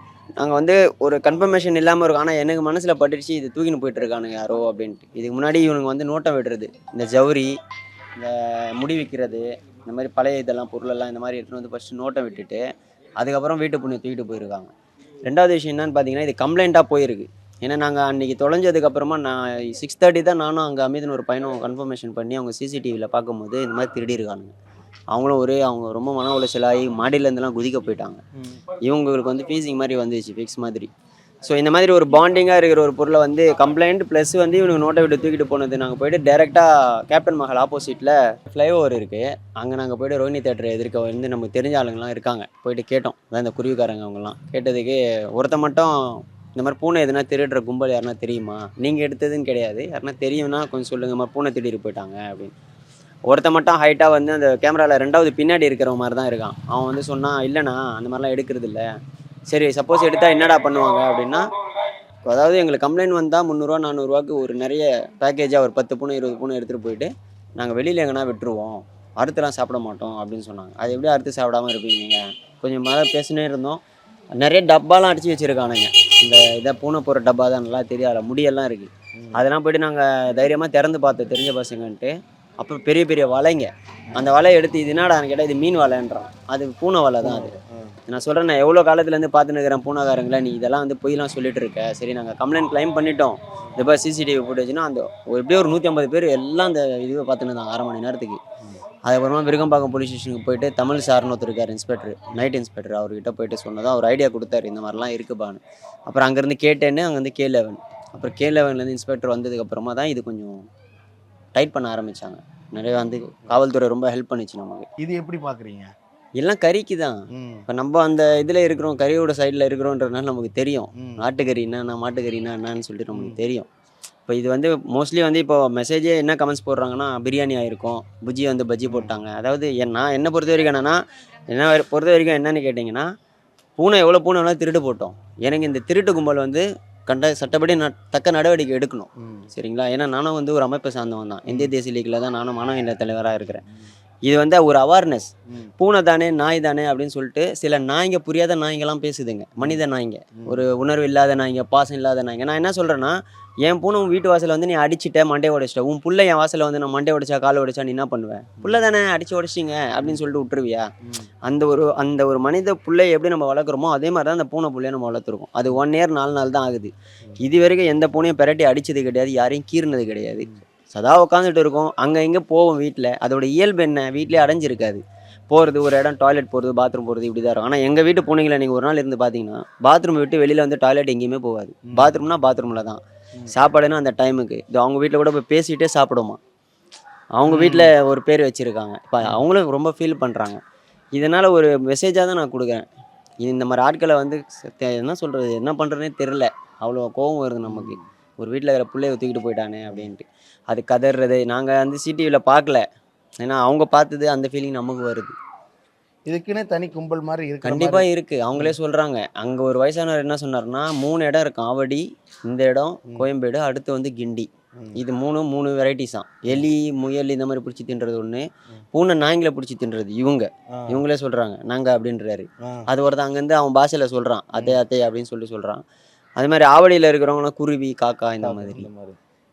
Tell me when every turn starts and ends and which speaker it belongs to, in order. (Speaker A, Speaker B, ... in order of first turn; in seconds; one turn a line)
Speaker A: 0.4-7.5
Speaker A: 8.2-12.6
Speaker A: 13.2-14.7
Speaker A: 15.2-24.5
Speaker A: 25.1-28.2
Speaker A: 28.8-30.9
Speaker A: 31.4-45.9
Speaker A: 46.5-52.5
Speaker A: 53.3-58.9
Speaker A: 59.5-61.4
Speaker A: 62.2-73.8
Speaker A: 74.4-87.5
Speaker B: 79.2-79.4
Speaker B: 87.2-88.0
Speaker A: 88.1-98.4
Speaker A: 99.0-110.5
Speaker A: 111.5-114.9
Speaker B: 115.0-115.9
Speaker A: 116.4-117.2
Speaker B: 117.3-117.7
Speaker A: 117.7-123.7
Speaker B: 121.0-121.2
Speaker B: 123.1-123.4
Speaker A: 124.3-131.0
Speaker B: 128.8-129.1
Speaker A: 131.5-133.1
Speaker A: 133.8-143.6
Speaker B: 139.2-139.5
Speaker B: 141.5-141.7
Speaker A: 144.2-160.9
Speaker A: 161.4-186.4
Speaker A: 187.3-190.6
Speaker B: 187.5-187.9
Speaker A: 191.1-192.8
Speaker A: 193.4-202.8
Speaker B: 197.6-198.0
Speaker A: 203.4-205.3
Speaker B: 206.3-208.8
Speaker A: 207.6-225.8
Speaker B: 214.8-215.0
Speaker B: 220.7-221.0
Speaker A: 226.4-228.9
Speaker B: 228.4-229.2